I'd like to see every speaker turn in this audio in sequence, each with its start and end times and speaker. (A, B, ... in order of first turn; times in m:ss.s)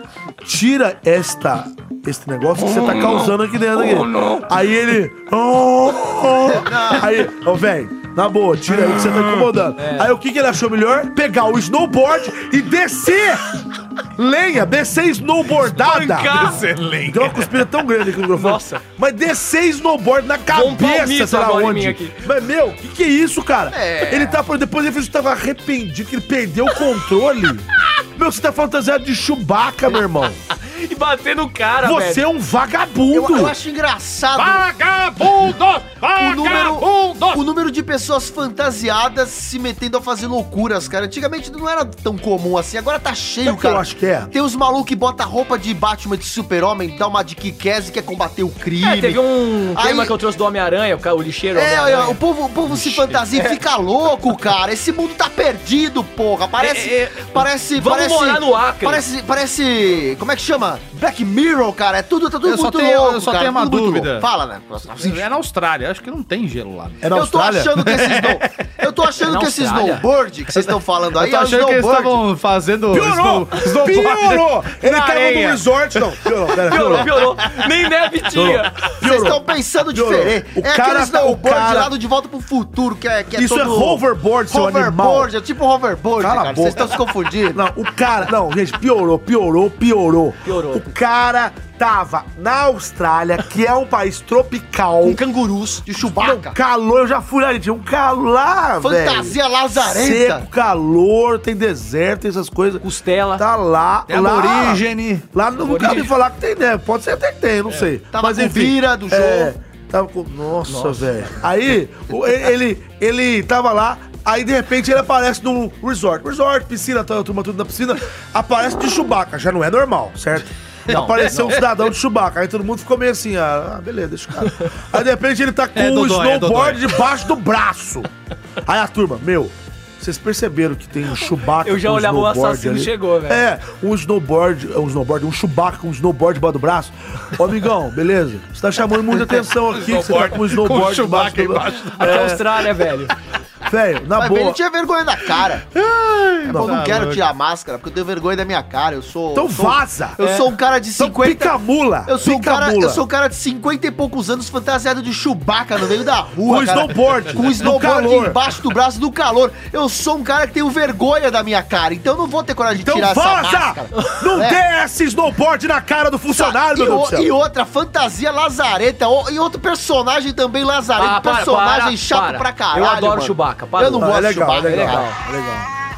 0:00.4-0:13.4 A
0:06.5-0:07.1 B
0:09.8-0:10.1 C
0:14.2-0:30.4 A
0:15.7-0:17.0 C
0:16.3-0:17.5 D
0:18.3-0:18.8 C
0:20.5-0:22.2 C
0:23.7-0:24.4 B
0:30.5-0:32.2 C
0:31.8-0:33.6 A
0:33.1-0:34.7 B
0:34.4-0:37.4 D
0:36.2-0:49.2 B
0:43.4-0:44.3 A
0:48.8-0:52.2 C
0:49.7-0:50.2 B
0:51.5-1:05.2 B
0:56.6-0:57.4 D
0:57.7-0:59.0 C
1:02.4-1:04.3 D
1:04.9-1:07.0 D
1:07.0-1:07.8 A
1:07.1-1:12.2 B
1:07.8-1:08.5 D
1:09.2-1:10.1 C
1:10.5-1:16.3 D
1:12.9-1:17.2 A
1:16.7-1:19.0 C
1:18.3-1:21.9 A
1:19.0-1:27.6 B
1:23.3-1:25.3 A
1:26.2-1:35.2 A
1:30.4-1:30.9 C
1:35.0-1:36.6 B
1:36.1-1:42.8 A
1:38.8-1:40.4 B
1:42.8-1:43.4 C
1:43.4-2:08.1 A
1:44.1-1:45.2 D
1:45.6-1:46.1 C
1:48.1-1:49.5 B
1:50.7-1:51.3 C
2:00.9-2:01.6 C
2:05.8-2:07.0 D
2:08.6-2:22.4 A
2:11.5-2:13.4 C
2:19.7-2:22.4 D
2:22.0-2:23.1 C
2:23.6-2:24.6 A
2:24.2-2:25.6 B
2:25.7-2:27.2 D
2:26.5-2:26.8 A
2:26.5-2:44.6 B
2:29.3-2:30.2 A
2:31.0-2:33.0 A
2:36.4-2:38.4 A
2:42.7-2:47.3 A
2:46.3-2:55.1 B
2:51.0-2:55.2 C
2:54.0-2:55.7 A